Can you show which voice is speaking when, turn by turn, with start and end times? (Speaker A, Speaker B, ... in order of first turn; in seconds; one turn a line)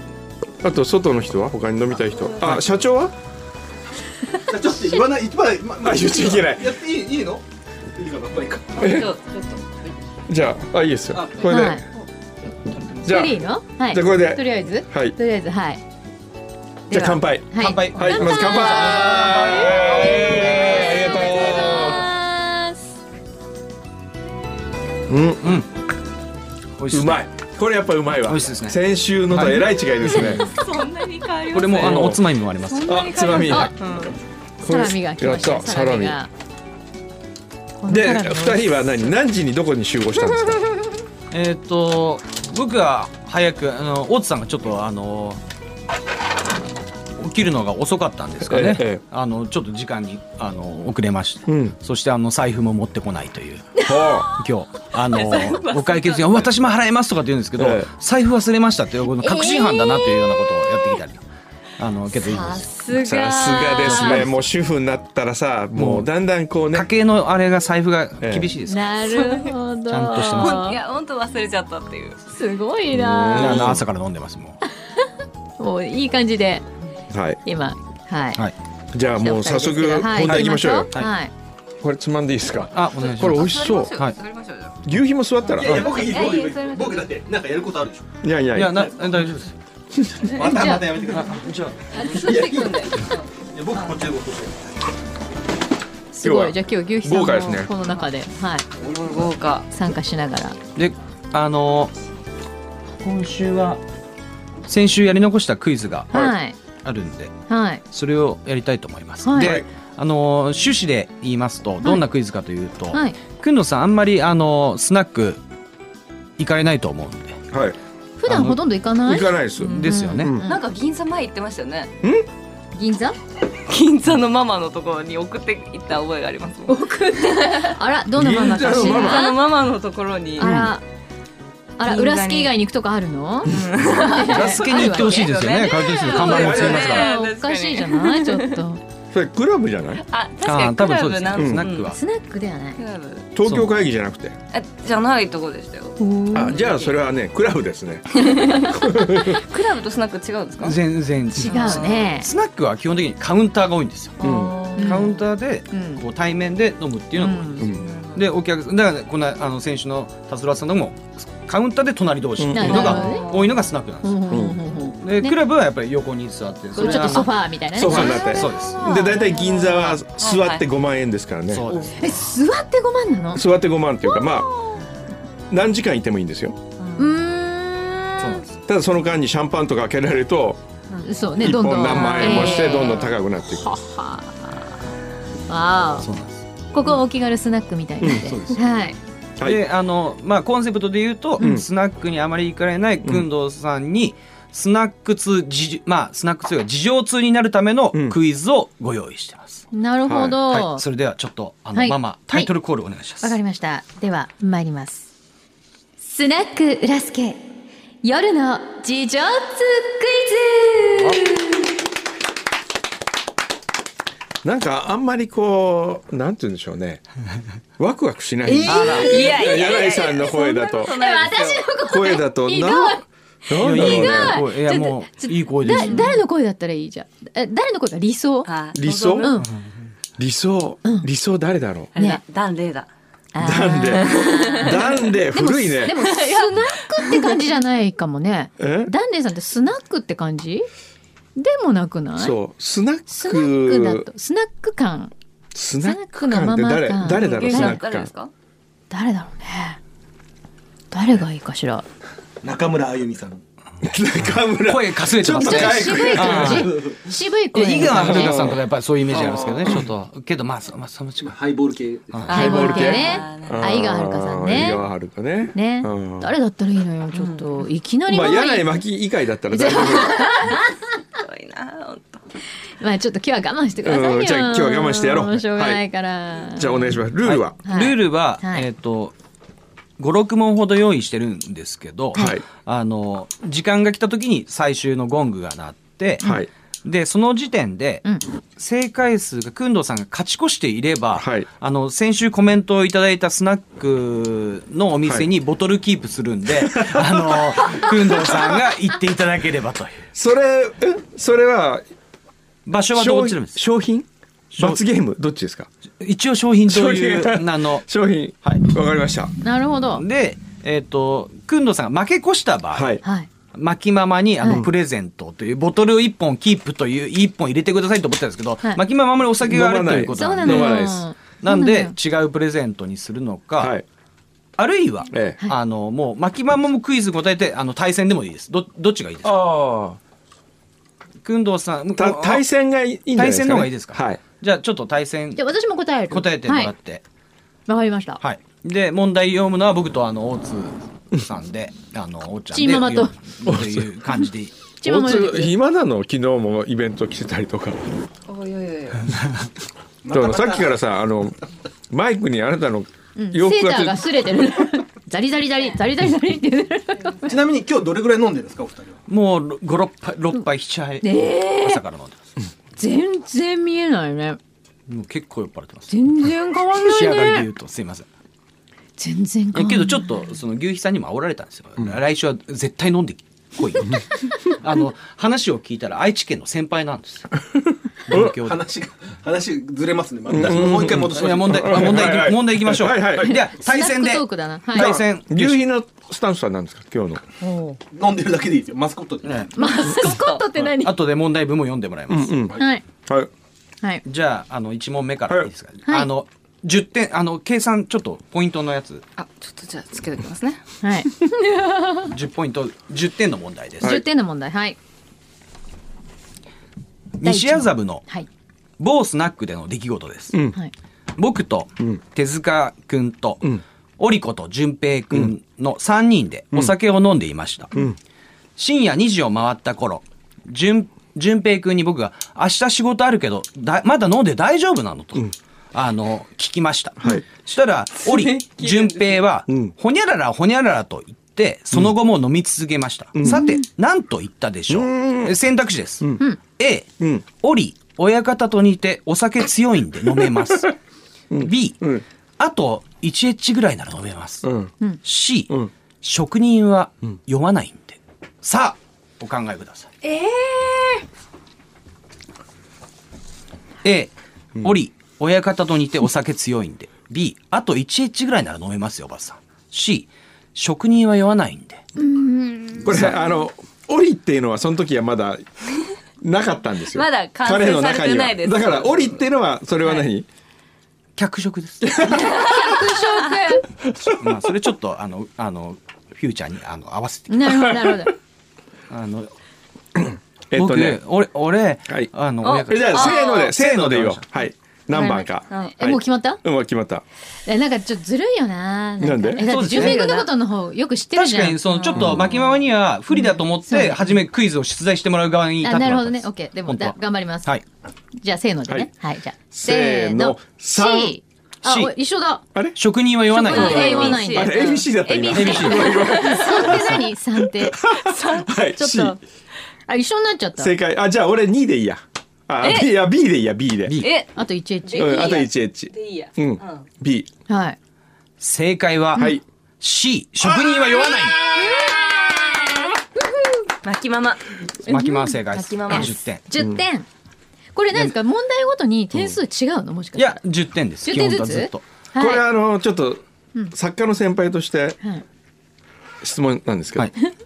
Speaker A: 0.6-3.1
Speaker B: 4.5-7.4
Speaker A: 5.8-6.8
Speaker B: 8.0-8.9
Speaker A: 8.8-9.1
Speaker C: 8.8-9.9
Speaker A: 10.3-11.8
Speaker B: 11.2-11.5
Speaker D: 11.4-11.8
Speaker A: 13.0-15.2
Speaker D: 13.0-15.8
Speaker D: 16.9-22.9
Speaker A: 16.9-22.1
Speaker E: 17.6-20.9
Speaker A: 25.1-25.4
Speaker E: 25.4-25.7
Speaker E: 26.8-27.2
Speaker A: 26.9-30.5
Speaker E: 28.2-28.8
Speaker E: 29.3-30.4
Speaker C: 30.4-32.2
Speaker E: 31.5-33.7
Speaker A: 31.8-32.2
Speaker C: 32.7-34.2
Speaker A: 32.8-33.7
Speaker D: 33.3-33.7
Speaker A: 34.6-36.2
Speaker D: 34.6-36.3
Speaker D: 37.8-38.7
Speaker A: 37.9-40.7
Speaker E: 41.3-45.4
Speaker E: 47.2-61.2
Speaker A: 48.5-49.0
Speaker A: 51.5-51.8
Speaker D: 53.8-54.1
Speaker A: 53.8-54.3
Speaker C: 55.1-56.2
Speaker A: 57.6-57.9
Speaker D: 59.2-60.5
Speaker E: 61.8-62.7
Speaker D: 62.3-64.3
Speaker A: 62.9-66.9
Speaker E: 63.8-64.4
Speaker E: 65.7-66.1
Speaker E: 66.7-68.9
Speaker A: 68.2-68.5
Speaker D: 68.7-70.8
Speaker C: 69.1-69.5
Speaker E: 69.9-70.6
Speaker C: 70.3-72.2
Speaker D: 72.3-73.7
Speaker A: 72.9-73.8
Speaker E: 73.4-74.6
Speaker D: 75.6-76.7
Speaker A: 77.1-77.4
Speaker D: 77.5-78.4
Speaker A: 78.9-80.9
Speaker D: 79.2-81.3
Speaker E: 79.7-81.1
Speaker A: 81.8-84.0
Speaker E: 82.7-84.2
Speaker C: 83.2-84.8
Speaker A: 84.8-85.9
Speaker B: 85.5-88.1
Speaker E: 85.7-85.9
Speaker C: 86.0-87.1
Speaker A: 88.2-88.9
Speaker E: 88.5-89.6
Speaker A: 90.0-90.3
Speaker B: 90.1-93.0
Speaker D: 90.4-91.2
Speaker E: 91.3-91.7
Speaker C: 91.9-94.0
Speaker B: 93.5-94.6
Speaker D: 96.1-98.7
Speaker A: 96.2-97.7
Speaker C: 98.8-99.7
Speaker D: 99.7-100.6
Speaker E: 100.8-101.9
Speaker E: 103.0-103.8
Speaker E: 104.7-106.1
Speaker D: 106.1-106.6
Speaker E: 106.8-107.4
Speaker D: 107.5-107.8
Speaker E: 107.9-115.4
Speaker D: 109.2-109.6
Speaker A: 109.4-109.7
Speaker E: 116.4-117.4
Speaker A: 117.5-117.8
Speaker D: 118.2-120.6
Speaker E: 118.3-118.6
Speaker A: 119.1-120.5
Speaker E: 119.7-120.3
Speaker C: 120.4-121.9
Speaker D: 122.8-123.2
Speaker C: 123.7-127.8
Speaker D: 126.7-129.4
Speaker A: 128.2-129.3
Speaker C: 128.7-130.6
Speaker D: 130.4-130.8
Speaker A: 130.4-130.7
Speaker D: 131.8-138.8
Speaker C: 131.8-132.5
Speaker C: 133.5-138.6
Speaker E: 134.0-137.1
Speaker A: 136.2-136.9
Speaker A: 139.1-140.0
Speaker C: 140.1-142.0
Speaker E: 140.4-142.0
Speaker A: 141.4-141.7
Speaker D: 141.8-142.8
Speaker C: 142.8-143.3
Speaker A: 143.3-144.4
Speaker C: 144.5-146.9
Speaker D: 146.0-146.6
Speaker A: 146.3-149.4
Speaker C: 148.1-150.8
Speaker E: 150.6-154.2
Speaker D: 151.3-152.3
Speaker C: 151.5-152.1
Speaker C: 154.2-155.1
Speaker A: 154.2-154.6
Speaker E: 154.7-164.3
Speaker D: 154.8-155.2
Speaker D: 155.7-156.0
Speaker D: 157.2-157.7
Speaker C: 157.8-158.3
Speaker A: 162.4-163.0
Speaker D: 162.5-163.3
Speaker C: 162.7-163.5
Speaker D: 164.0-165.4
Speaker A: 164.3-164.6
Speaker E: 165.0-168.8
Speaker D: 166.8-168.4
Speaker A: 167.7-171.7
Speaker C: 168.0-170.6
Speaker D: 169.0-169.8
Speaker E: 171.5-172.0
Speaker C: 171.7-172.0
Speaker D: 172.0-173.4
Speaker A: 173.3-174.5
Speaker D: 174.1-174.8
Speaker A: 175.5-176.6
Speaker C: 176.8-177.1
Speaker D: 177.0-178.4
Speaker E: 178.2-178.5
Speaker A: 178.7-180.6
Speaker D: 181.0-184.6
Speaker A: 181.4-183.7
Speaker C: 182.1-182.8
Speaker D: 185.5-186.1
Speaker E: 186.0-186.4
Speaker D: 186.7-189.0
Speaker A: 188.0-188.3
Speaker E: 188.2-188.6
Speaker A: 189.4-189.6
Speaker E: 189.4-199.7
Speaker A: 191.4-191.7
Speaker A: 197.9-198.2
Speaker D: 199.7-200.8
Speaker A: 200.1-200.4
Speaker E: 200.5-203.4
Speaker D: 201.7-202.5
Speaker D: 203.2-205.1
Speaker D: 206.0-207.4
Speaker D: 208.0-211.7
Speaker A: 214.4-217.0
Speaker A: 217.8-221.0
Speaker B: 218.4-219.3
Speaker C: 218.7-221.7
Speaker D: 220.1-228.5
Speaker A: 221.9-224.4
Speaker E: 223.6-226.2
Speaker C: 225.7-226.2
Speaker C: 228.4-229.4
Speaker A: 228.8-229.3
Speaker D: 229.2-229.5
Speaker A: 230.2-231.9
Speaker C: 231.9-232.9
Speaker D: 232.0-232.2
Speaker D: 233.3-240.7
Speaker A: 233.4-236.1
Speaker C: 234.0-234.9
Speaker C: 236.1-237.3
Speaker A: 238.6-238.9
Speaker D: 241.4-242.4
Speaker A: 242.2-244.1
Speaker D: 243.1-245.1
Speaker A: 245.5-248.1
Speaker D: 245.8-247.8
Speaker C: 247.1-248.3
Speaker D: 248.9-249.8
Speaker D: 250.9-251.8
Speaker B: 252.4-253.4
Speaker A: 253.8-256.7
Speaker E: 254.6-256.8
Speaker D: 255.4-258.4
Speaker B: 256.1-257.0
Speaker E: 257.5-261.3
Speaker A: 257.8-258.6
Speaker B: 259.1-259.8
Speaker B: 261.2-262.3
Speaker E: 262.1-262.6
Speaker C: 262.3-263.6
Speaker D: 262.3-264.8
Speaker A: 262.3-266.3
Speaker D: 265.5-268.8
Speaker C: 267.1-267.6
Speaker A: 268.1-270.4
Speaker D: 269.5-270.8
Speaker C: 271.2-272.2
Speaker D: 272.8-277.0
Speaker A: 273.8-275.8
Speaker A: 276.6-277.6
Speaker E: 277.2-279.1
Speaker D: 277.6-278.7
Speaker E: 280.0-286.2
Speaker A: 282.1-282.4
Speaker A: 286.2-286.5
Speaker E: 286.9-288.1
Speaker E: 288.6-300.0
Speaker A: 291.2-291.5
Speaker A: 296.7-298.6
Speaker A: 300.1-301.8
Speaker E: 302.7-303.6
Speaker A: 302.9-304.1
Speaker E: 304.5-304.8
Speaker A: 304.6-305.7
Speaker E: 306.0-307.9
Speaker A: 306.7-309.3
Speaker D: 309.4-310.0
Speaker E: 309.9-313.0
Speaker A: 312.7-313.0
Speaker D: 313.0-313.3
Speaker E: 313.5-323.8
Speaker A: 319.4-321.1
Speaker D: 320.2-321.9
Speaker A: 323.6-323.9
Speaker E: 324.6-329.4
Speaker A: 325.1-325.4
Speaker A: 329.2-330.0
Speaker E: 331.2-332.4
Speaker A: 332.0-334.2
Speaker E: 333.1-335.5
Speaker D: 335.4-336.7
Speaker E: 336.1-337.0
Speaker D: 337.7-338.2
Speaker E: 338.2-344.6
Speaker D: 342.5-343.1
Speaker A: 343.5-343.9
Speaker D: 344.8-345.5
Speaker A: 344.8-347.9
Speaker C: 348.3-349.1
Speaker B: 350.0-350.8
Speaker A: 350.1-351.4
Speaker A: 351.9-354.1
Speaker D: 353.2-357.3
Speaker B: 357.2-359.0
Speaker E: 359.1-362.2
Speaker D: 361.0-361.8
Speaker D: 362.8-364.4
Speaker E: 364.9-366.0
Speaker D: 365.9-367.5
Speaker E: 366.8-368.1
Speaker D: 369.0-370.3
Speaker E: 369.5-377.3
Speaker E: 378.1-378.6
Speaker A: 378.1-378.4
Speaker B: 378.1-382.3
Speaker A: 380.3-383.4
Speaker E: 380.4-385.6
Speaker D: 383.2-384.9
Speaker A: 384.7-387.2
Speaker D: 387.4-387.8
Speaker B: 387.9-389.5
Speaker D: 389.6-391.0
Speaker C: 389.7-390.4
Speaker E: 390.8-392.5
Speaker A: 392.1-393.3
Speaker D: 392.6-392.8
Speaker E: 394.1-399.1
Speaker C: 399.2-400.6
Speaker D: 400.8-402.1
Speaker E: 402.1-404.0
Speaker D: 403.8-404.8
Speaker E: 407.2-408.1
Speaker D: 407.2-408.3
Speaker E: 408.8-410.4
Speaker A: 410.3-410.6
Speaker E: 411.2-417.7
Speaker E: 418.6-440.8
Speaker A: 429.5-429.7
Speaker A: 433.2-433.4
Speaker D: 433.2-433.6
Speaker A: 434.7-435.4
Speaker A: 437.0-437.2
Speaker A: 441.3-442.0
Speaker E: 441.4-444.5
Speaker A: 444.4-444.7
Speaker E: 445.0-449.9
Speaker C: 450.2-450.6
Speaker E: 453.8-461.8
Speaker D: 462.0-463.2
Speaker A: 462.8-465.4
Speaker A: 466.2-470.3
Speaker C: 466.9-469.1
Speaker E: 471.2-472.1
Speaker D: 472.1-473.6
Speaker E: 474.0-477.6
Speaker D: 477.3-478.1
Speaker E: 478.9-479.3
Speaker A: 480.0-481.0
Speaker E: 480.5-484.3
Speaker C: 482.4-483.4
Speaker A: 482.6-487.0
Speaker D: 484.9-485.2
Speaker D: 485.8-486.4
Speaker D: 487.5-492.4
Speaker A: 489.0-489.5
Speaker E: 489.4-490.1
Speaker C: 489.6-490.3
Speaker E: 491.1-497.6
Speaker C: 491.8-492.6
Speaker A: 491.9-492.3
Speaker D: 493.1-494.2
Speaker D: 495.6-497.6
Speaker D: 498.2-502.4
Speaker A: 499.5-501.1
Speaker E: 502.8-504.3
Speaker D: 503.4-507.9
Speaker C: 503.4-504.8
Speaker A: 503.5-509.2
Speaker E: 505.3-506.9
Speaker C: 506.1-506.5
Speaker C: 508.0-508.5
Speaker D: 508.8-509.2
Speaker D: 509.9-510.7
Speaker A: 510.6-514.0
Speaker C: 512.6-512.9
Speaker C: 514.0-514.3
Speaker D: 514.4-515.4
Speaker C: 514.8-516.9
Speaker A: 515.0-517.3
Speaker D: 517.5-517.8
Speaker E: 518.4-521.4
Speaker A: 520.4-521.4
Speaker D: 521.5-522.8
Speaker C: 523.8-524.5
Speaker E: 524.9-526.4
Speaker D: 524.9-527.1
Speaker C: 525.5-526.1
Speaker D: 527.8-530.4
Speaker E: 530.2-531.8
Speaker D: 531.0-532.5
Speaker A: 532.2-535.0
Speaker A: 536.2-537.1